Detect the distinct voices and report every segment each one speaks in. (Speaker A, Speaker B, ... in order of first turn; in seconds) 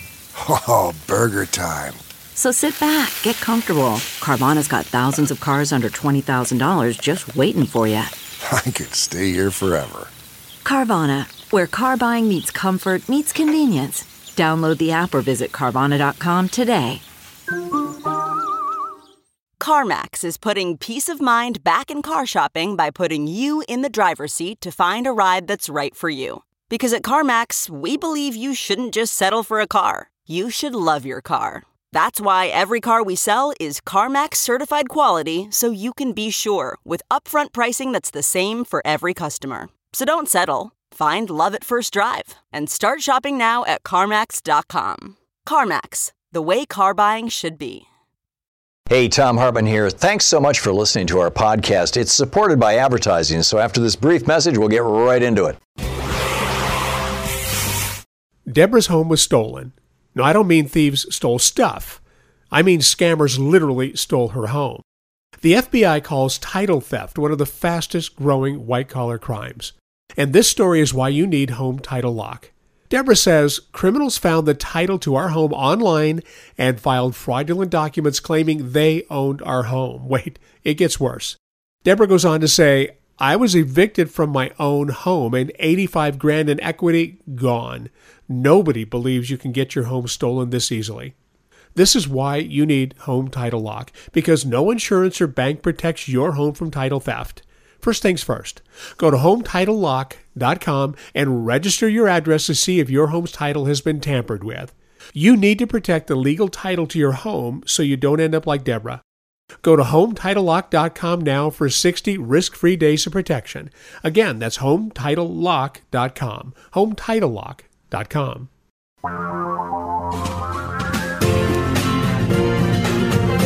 Speaker A: 0.4-2.0, 8.4-10.1
Speaker B: 2.4-8.1, 10.7-17.0
Speaker C: 19.6-47.9
Speaker D: 48.9-55.6
Speaker E: 58.5-62.0, 62.5-64.8, 65.4-91.1, 91.8-109.0, 109.6-118.5